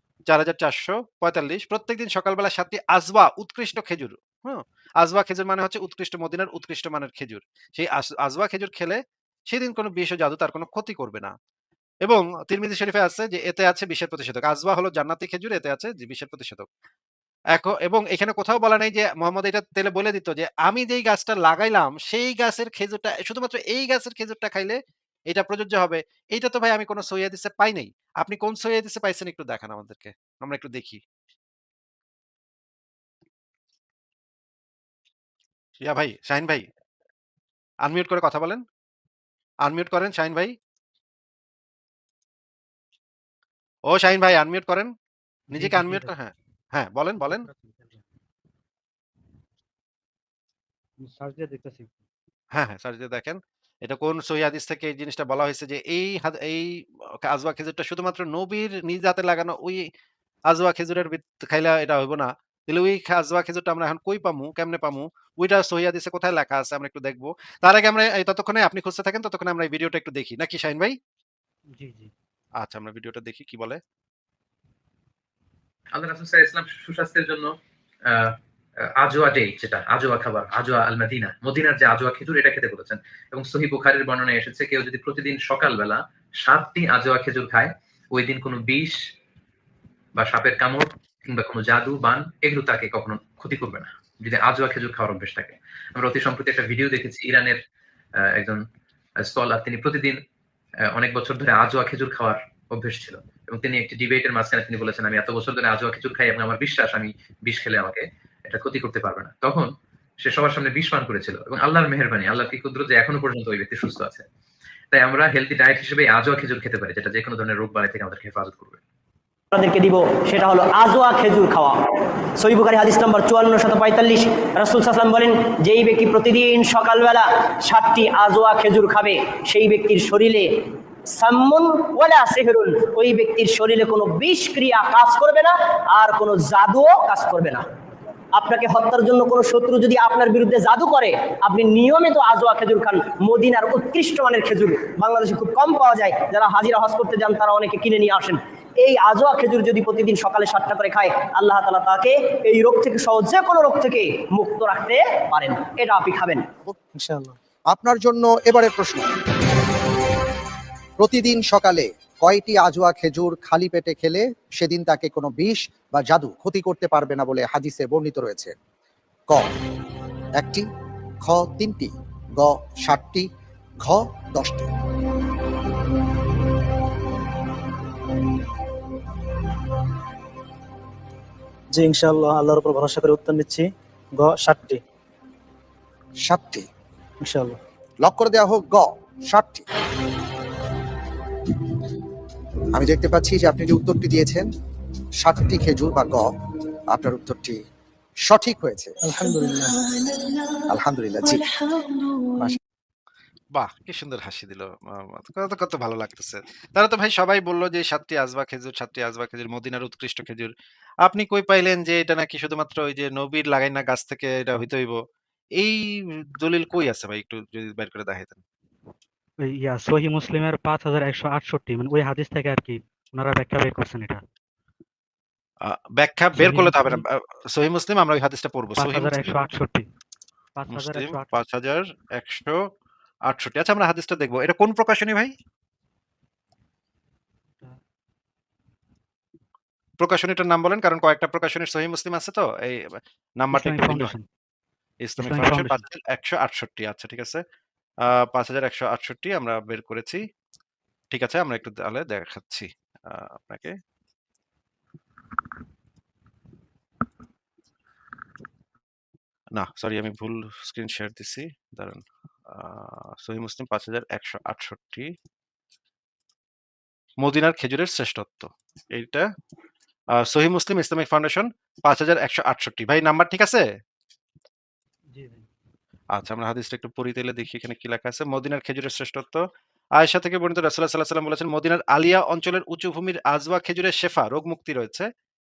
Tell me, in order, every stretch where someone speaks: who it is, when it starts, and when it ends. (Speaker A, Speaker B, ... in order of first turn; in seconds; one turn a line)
Speaker A: 0.3-9.0
Speaker A: 9.5-11.3
Speaker A: 12.1-16.7
Speaker A: 17.6-24.8
Speaker A: 25.3-31.0
Speaker A: 35.8-36.6
Speaker A: 37.9-38.6
Speaker A: 39.7-40.5
Speaker A: 43.9-44.9
Speaker B: 45.5-46.1
Speaker A: 45.5-47.5
Speaker B: 47.2-48.0
Speaker B: 51.0-51.9
Speaker A: 52.5-56.7
Speaker A: 57.2-59.8
Speaker A: 60.5-71.0
Speaker B: 71.8-72.1
Speaker A: 72.6-73.8
Speaker C: 75.9-77.5
Speaker C: 79.0-89.0
Speaker C: 90.2-97.6
Speaker C: 99.2-100.2
Speaker C: 101.0-109.7
Speaker C: 110.2-114.3
Speaker C: 114.9-118.8
Speaker D: 119.5-121.8
Speaker D: 122.4-130.5
Speaker D: 131.1-137.6
Speaker D: 138.3-156.5
Speaker E: 157.0-157.4
Speaker F: 157.7-159.1
Speaker F: 161.0-168.6
Speaker F: 170.4-170.7
Speaker F: 171.2-173.3
Speaker F: 173.8-174.7
Speaker E: 181.7-184.8
Speaker F: 186.2-186.7
Speaker E: 187.2-187.6
Speaker F: 188.0-189.7
Speaker F: 192.7-194.5
Speaker F: 195.2-196.3
Speaker F: 196.9-197.6
Speaker F: 198.2-198.9
Speaker E: 199.1-199.8
Speaker F: 200.7-201.5
Speaker A: 203.6-210.5
Speaker A: 211.1-215.0
Speaker A: 216.4-218.4
Speaker B: 219.5-224.2
Speaker A: 225.7-229.4
Speaker B: 226.4-227.0
Speaker B: 228.8-229.9
Speaker B: 230.6-231.4
Speaker A: 230.7-232.6
Speaker A: 233.3-235.3
Speaker A: 240.0-244.1
Speaker B: 243.5-244.2
Speaker A: 245.0-247.4
Speaker B: 245.2-245.8
Speaker A: 248.1-250.2
Speaker A: 251.1-253.7
Speaker A: 259.6-265.1
Speaker A: 267.2-269.2
Speaker A: 270.2-273.6
Speaker B: 275.1-275.5
Speaker A: 276.1-279.4
Speaker A: 280.0-285.1